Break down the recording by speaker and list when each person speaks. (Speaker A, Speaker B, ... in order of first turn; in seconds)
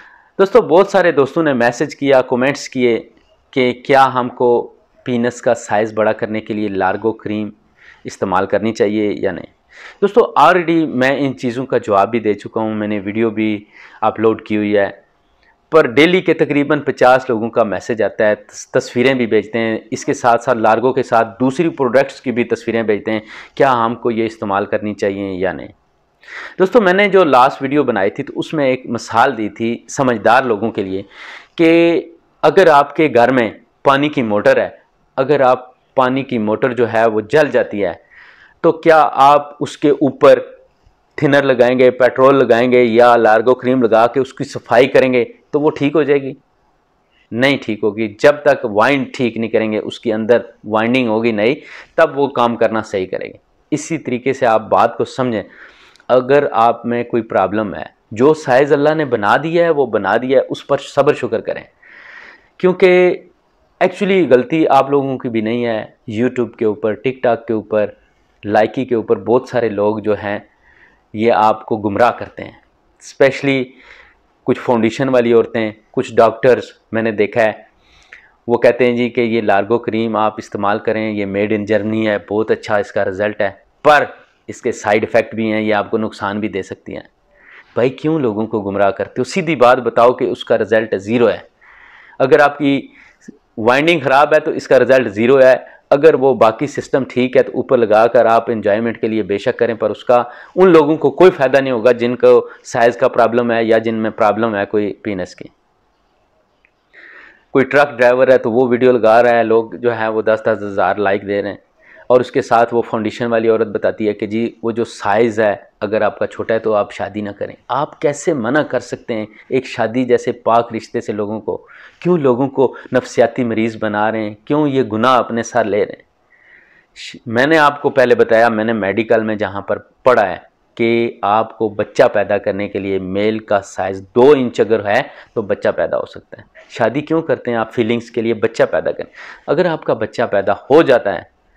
Speaker A: 0.4-7.5, 8.1-15.0, 15.7-25.7, 26.6-38.0, 38.6-40.5, 41.2-46.4, 47.3-55.5, 56.1-61.7, 62.6-63.3, 63.8-67.9, 68.4-70.5, 71.1-73.8, 74.5-77.7, 78.5-87.1, 87.8-91.5, 92.2-93.0, 93.6-105.5, 107.5-126.0, 127.0-141.3